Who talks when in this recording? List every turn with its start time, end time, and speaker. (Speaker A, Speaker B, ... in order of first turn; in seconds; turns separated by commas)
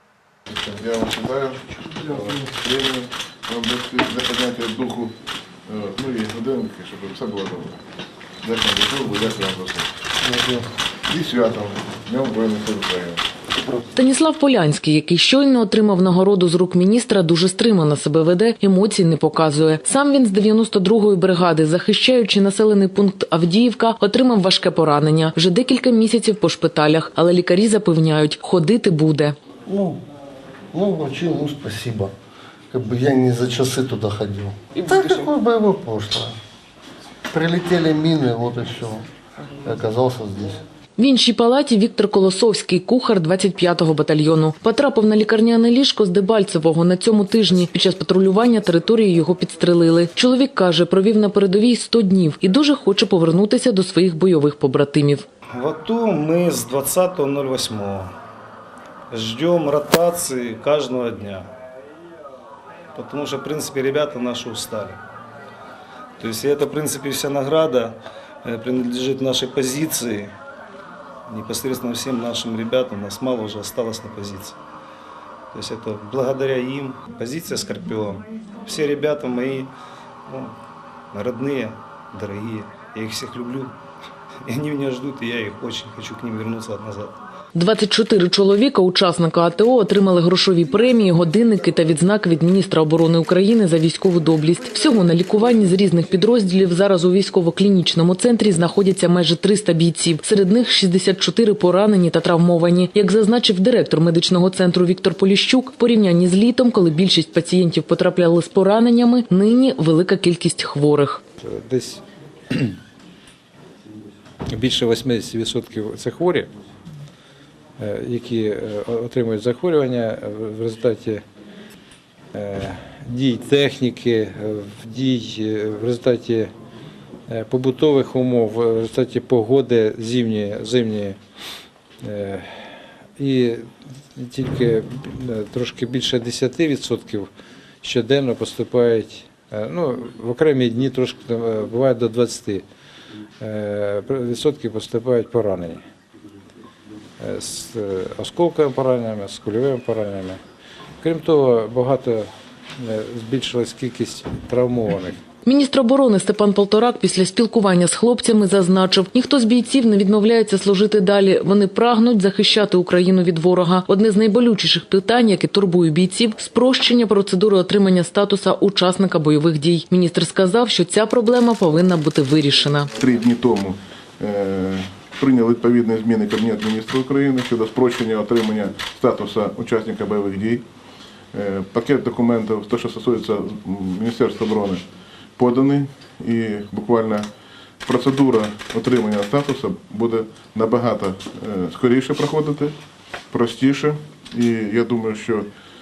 Speaker A: 0.5-5.2, Speaker A: 5.7-7.8, Speaker A: 8.4-9.9, Speaker B: 10.2-10.7, Speaker A: 11.1-13.2, Speaker C: 13.9-29.4, Speaker B: 29.7-30.0, Speaker B: 30.7-32.1, Speaker B: 32.7-36.4, Speaker B: 37.3-39.1, Speaker B: 39.6-40.6, Speaker C: 41.0-55.2, Speaker D: 55.5-58.1, Speaker D: 59.1-61.5, Speaker D: 63.0-65.0, Speaker D: 66.2-70.3, Speaker D: 71.3-74.6, Speaker D: 75.5-79.7, Speaker D: 80.3-80.5, Speaker D: 81.1-83.7, Speaker D: 84.5-87.1, Speaker C: 87.5-111.2, Speaker E: 111.4-112.8, Speaker E: 114.5-116.5, Speaker E: 117.8-121.2, Speaker E: 122.3-126.5, Speaker E: 127.3-131.2, Speaker E: 132.0-133.7, Speaker E: 134.2-137.3, Speaker E: 137.8-142.7, Speaker E: 143.4-145.8, Speaker E: 147.2-150.4, Speaker E: 151.0-152.3, Speaker E: 152.8-155.2, Speaker C: 155.4-172.9, Speaker A: 173.0-180.6, Speaker A: 181.3-184.8, Speaker A: 185.4-187.3, Speaker A: 187.8-192.8, Speaker A: 193.3-195.5